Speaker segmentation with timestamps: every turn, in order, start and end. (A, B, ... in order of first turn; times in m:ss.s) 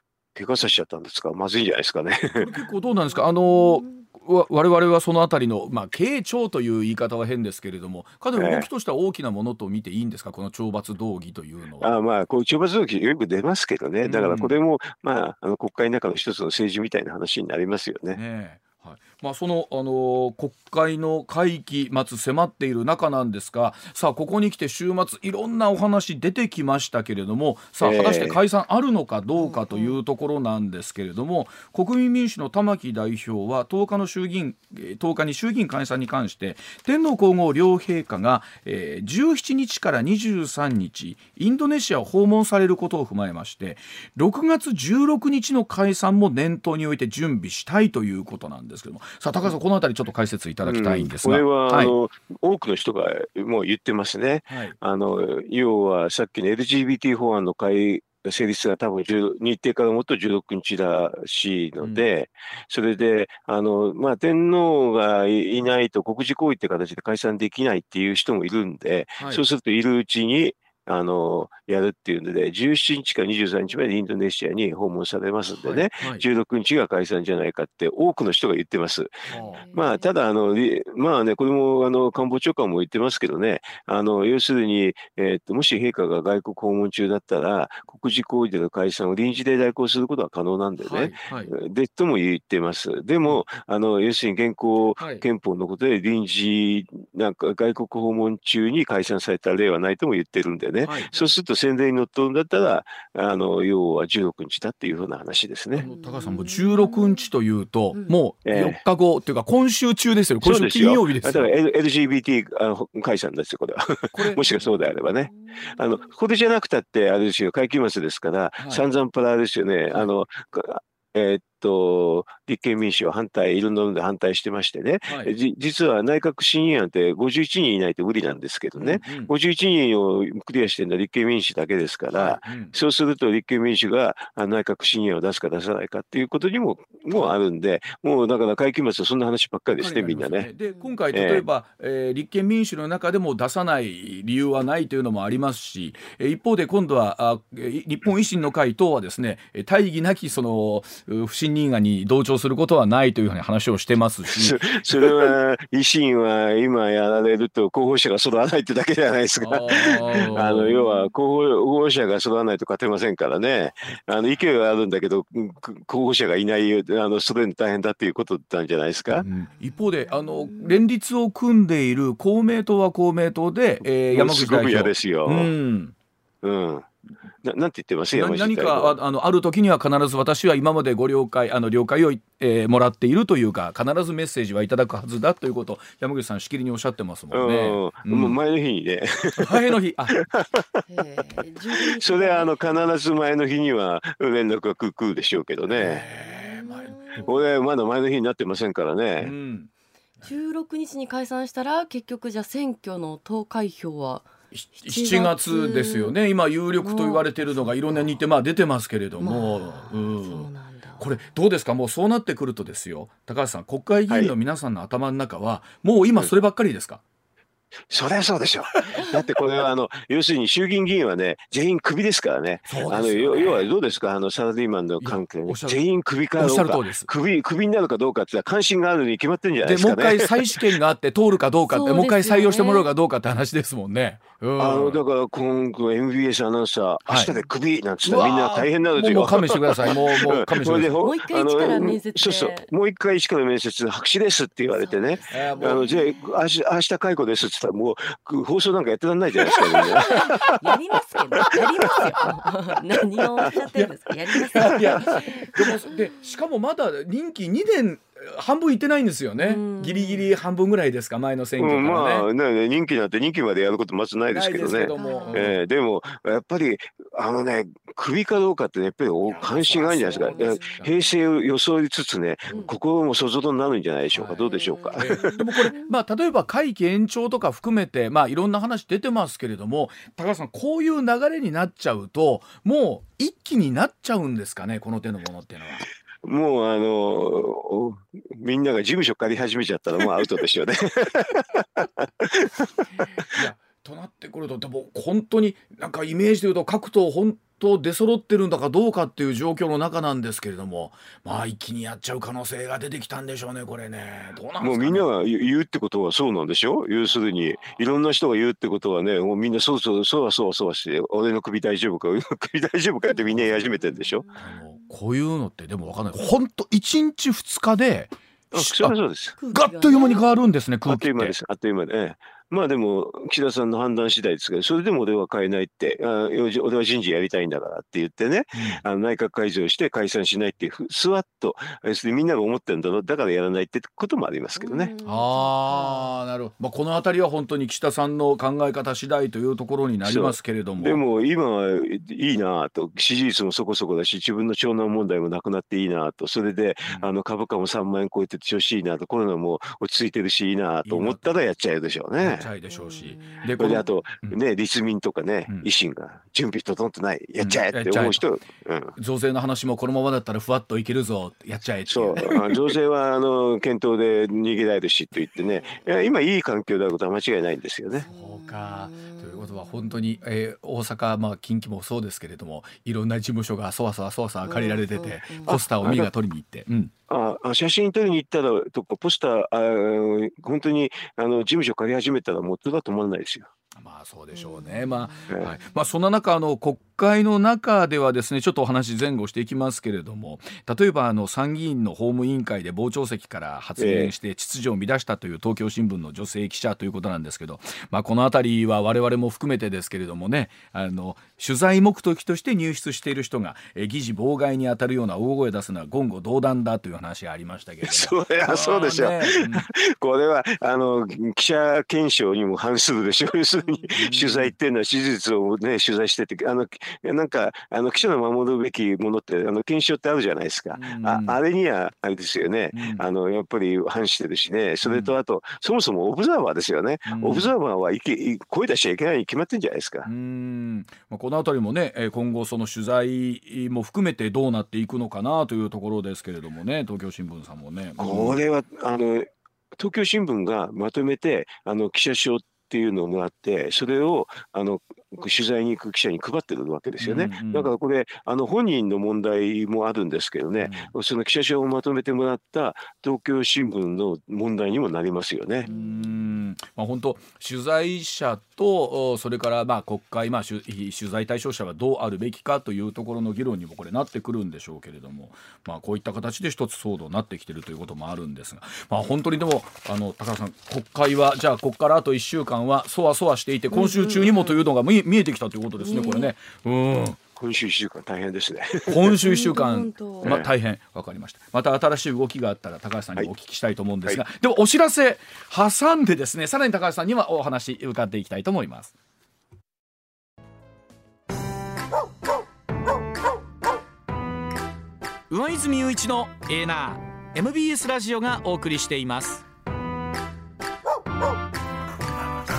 0:00.3-0:02.5 A
0:02.4-0:11.9 B
0:02.8-0:04.0 C
0:08.4-0:08.7 A
0:11.8-0:18.2 A
0:14.0-0:14.6 B
0:18.1-0:51.9 B
0:27.8-0:28.4 A
0:29.4-0:30.0 C
0:50.6-1:45.9 A
0:54.5-0:54.8 B
1:09.2-1:09.4 B
1:15.5-1:16.2 B
1:19.3-1:19.6 B
1:19.3-1:20.1 C
1:30.8-1:31.5 B
1:35.0-1:35.2 B
1:40.8-1:41.1 B
1:45.7-1:51.5 B
1:45.8-1:47.2 C
1:48.4-1:48.8 A
1:50.4-2:20.5 A
1:54.1-1:54.7 B
1:55.3-1:56.1 C
2:05.0-2:05.3 B
2:08.7-2:09.3 B
2:12.1-2:12.7 B
2:19.8-2:34.6 B
2:21.1-2:21.4 A
2:34.3-2:49.2 A
2:39.4-2:40.7 B
2:39.7-2:41.1 C
2:49.1-2:55.9 B
2:49.7-2:50.8 C
2:53.8-2:55.5 A
2:56.4-2:56.9 A
2:57.4-2:59.0 A
2:58.1-3:08.4 B
3:07.3-3:10.8 A
3:09.4-3:10.2 B
3:10.9-3:12.8 C
3:11.7-3:16.0 A
3:15.6-3:17.3 B
3:16.1-3:17.3 C
3:17.2-3:19.3 A
3:19.2-3:20.3 B
3:20.2-3:26.2 C
3:24.5-3:30.5 B
3:26.8-3:28.2 C
3:29.2-3:31.1 C
3:31.0-3:37.0 B
3:37.9-3:50.7 A
3:42.7-3:43.7 B
3:45.0-3:45.8 B
3:46.4-3:47.1 B
3:49.6-3:55.0 B
3:51.7-3:52.9 C
3:54.6-4:10.6 A
3:57.0-3:57.3 B
3:58.0-4:01.0 B
4:01.0-4:02.7 C
4:04.7-4:06.2 C
4:05.3-4:05.9 B
4:09.5-4:16.2 C
4:10.1-4:10.6 B
4:11.4-4:12.3 B
4:11.4-4:12.1 A
4:13.7-4:22.3 B
4:14.6-4:15.7 A
4:19.4-4:20.3 C
4:21.6-4:35.3 A
4:24.3-4:25.6 B
4:24.9-4:25.5 C
4:29.2-4:31.0 B
4:30.1-4:30.8 C
4:34.1-4:34.4 B
4:34.4-4:35.9 C
4:35.0-4:45.8 B
4:46.2-4:53.3 A
4:53.3-5:05.1 B
5:04.6-5:14.2 A
5:13.3-5:13.7 B
5:13.8-5:14.9 C
5:14.3-5:21.4 B
5:18.5-5:19.4 A
5:19.4-5:20.3 C
5:20.8-5:34.9 A
5:28.5-5:28.8 B
5:34.6-5:36.2 C
5:35.0-5:41.0 B
5:40.0-5:52.5 A
5:50.8-5:51.4 B
5:52.2-5:54.4 B
5:52.7-5:53.8 C
5:53.6-5:58.9 A
5:57.4-5:58.2 B
5:59.0-6:02.6 B
6:01.9-6:08.1 A
6:08.0-6:16.9 B
6:08.1-6:10.0 C
6:14.4-6:15.6 C
6:15.5-6:16.1 A
6:17.1-6:23.5 A
6:23.8-6:49.7 B
6:24.3-6:25.3 C
6:25.3-6:25.5 A
6:33.8-6:34.1 A
6:47.8-7:10.1 A
6:53.9-6:54.5 B
7:00.7-7:01.4 B
7:02.7-7:03.0 B
7:04.8-7:05.1 B
7:07.0-7:07.5 B
7:10.0-7:18.4 B
7:18.0-7:35.7 A
7:27.0-7:27.7 B
7:30.6-7:30.9 B
7:35.6-7:57.2 B
7:35.6-7:36.1 C
7:53.7-7:54.7 C
7:55.8-7:56.3 C
7:57.4-7:59.2 A
7:58.9-8:08.9 B
7:59.2-8:00.4 C
8:00.2-8:00.5 A
8:15.3-8:19.4 B